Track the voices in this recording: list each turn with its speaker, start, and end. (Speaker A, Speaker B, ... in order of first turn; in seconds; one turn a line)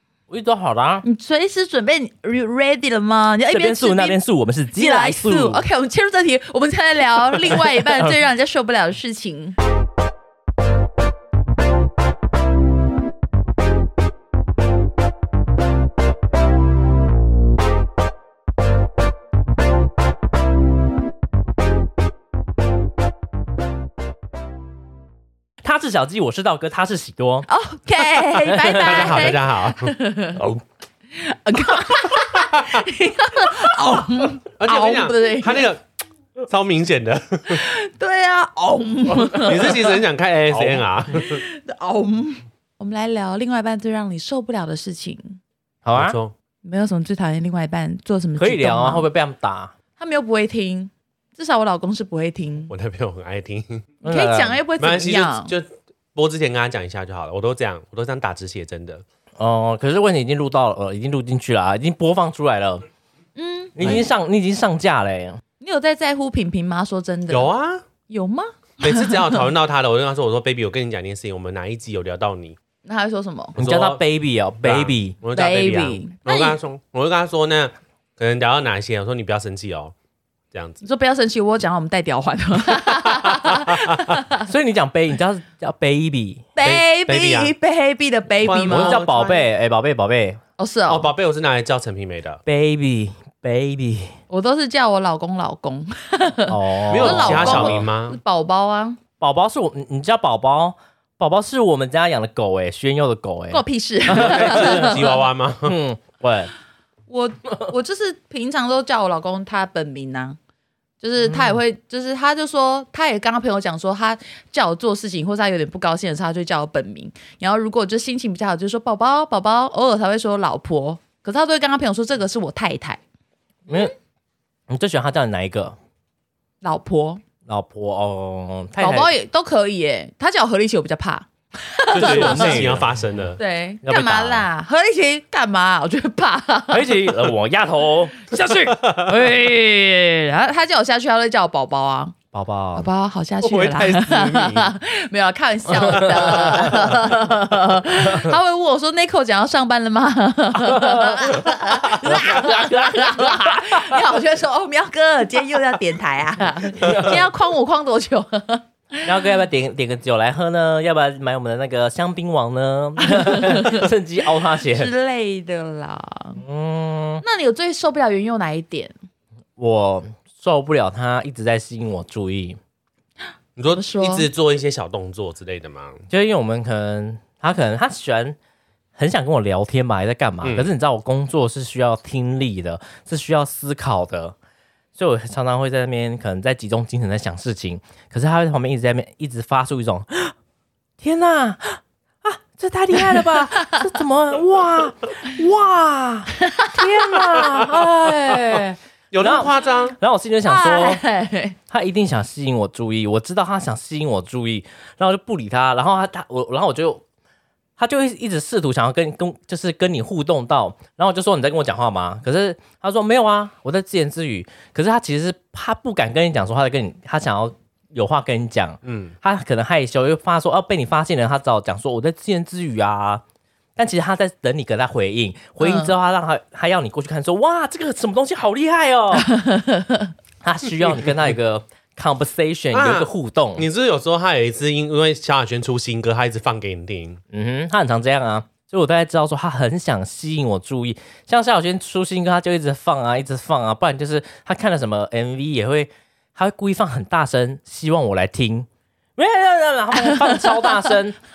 Speaker A: 0.3-1.1
Speaker B: 1.0-4.2
Speaker A: 3.5-5.6
Speaker B: 4.7-9.6
Speaker A: 25.6-27.5
Speaker B: 27.5-30.4
Speaker A: 28.2-29.4
Speaker C: 28.8-30.6
Speaker B: 31.1-35.6
Speaker C: 32.5-32.8
Speaker C: 34.6-35.8
Speaker C: 36.4-37.6
Speaker B: 37.5-40.0
Speaker C: 39.3-41.4
Speaker A: 40.5-40.9
Speaker B: 41.1-45.4
Speaker A: 45.9-46.2
Speaker C: 45.9-46.3
Speaker B: 46.6-49.0
Speaker A: 48.4-49.7
Speaker B: 50.0-52.7
Speaker C: 52.7-53.9
Speaker A: 54.0-54.6
Speaker B: 54.0-55.5
Speaker C: 54.8-59.0
Speaker A: 59.4-62.9
Speaker B: 63.4-64.0
Speaker A: 63.8-65.4
Speaker B: 65.6-67.5
Speaker C: 67.3-67.8
Speaker B: 68.1-69.3
Speaker C: 68.8-72.6
Speaker B: 72.8-73.6
Speaker A: 73.6-75.2
Speaker C: 73.6-74.0
Speaker C: 74.6-79.9
Speaker B: 75.3-76.6
Speaker C: 80.5-80.8
Speaker B: 80.8-84.5
Speaker C: 83.3-84.0
Speaker A: 84.4-86.5
Speaker B: 86.6-89.5
Speaker C: 86.6-87.5
Speaker C: 88.4-89.0
Speaker A: 88.7-90.4
Speaker B: 90.6-91.1
Speaker C: 90.9-92.4
Speaker A: 92.5-94.2
Speaker B: 94.3-99.0
Speaker A: 96.5-97.8
Speaker C: 96.9-98.2
Speaker A: 99.2-105.0
Speaker B: 103.5-105.2
Speaker C: 104.1-105.8
Speaker A: 105.6-106.5
Speaker B: 107.1-110.4
Speaker B: 111.0-123.0
Speaker A: 111.3-111.6
Speaker A: 123.7-123.9
Speaker A: 124.7-125.8
Speaker B: 126.6-127.2
Speaker A: 127.5-129.1
Speaker B: 128.8-132.7
Speaker C: 131.9-133.4
Speaker A: 131.9-132.9
Speaker B: 133.4-137.1
Speaker A: 133.8-134.5
Speaker A: 136.7-139.4
Speaker B: 138.3-142.2
Speaker C: 138.6-139.1
Speaker A: 142.3-142.9
Speaker B: 142.8-159.1
Speaker C: 143.4-144.7
Speaker A: 145.8-146.7
Speaker C: 146.2-146.6
Speaker A: 150.6-154.0
Speaker A: 156.7-157.2
Speaker A: 159.1-164.9
Speaker B: 163.0-163.9
Speaker B: 164.6-166.4
Speaker A: 166.4-167.2
Speaker B: 167.2-168.9
Speaker A: 169.6-172.6
Speaker C: 173.6-176.1
Speaker B: 173.7-174.3
Speaker A: 176.1-178.4
Speaker A: 179.0-184.4
Speaker C: 180.4-180.7
Speaker A: 185.0-190.3
Speaker A: 191.0-201.0
Speaker B: 196.4-196.9
Speaker B: 198.1-198.7
Speaker C: 199.1-200.0
Speaker B: 200.4-201.6
Speaker A: 201.7-207.0
Speaker A: 207.8-223.2
Speaker C: 218.8-219.1
Speaker A: 223.8-229.4
Speaker B: 225.6-225.9
Speaker B: 229.4-230.1
Speaker A: 230.4-233.7
Speaker C: 232.7-237.2
Speaker A: 237.3-251.2
Speaker B: 250.0-250.9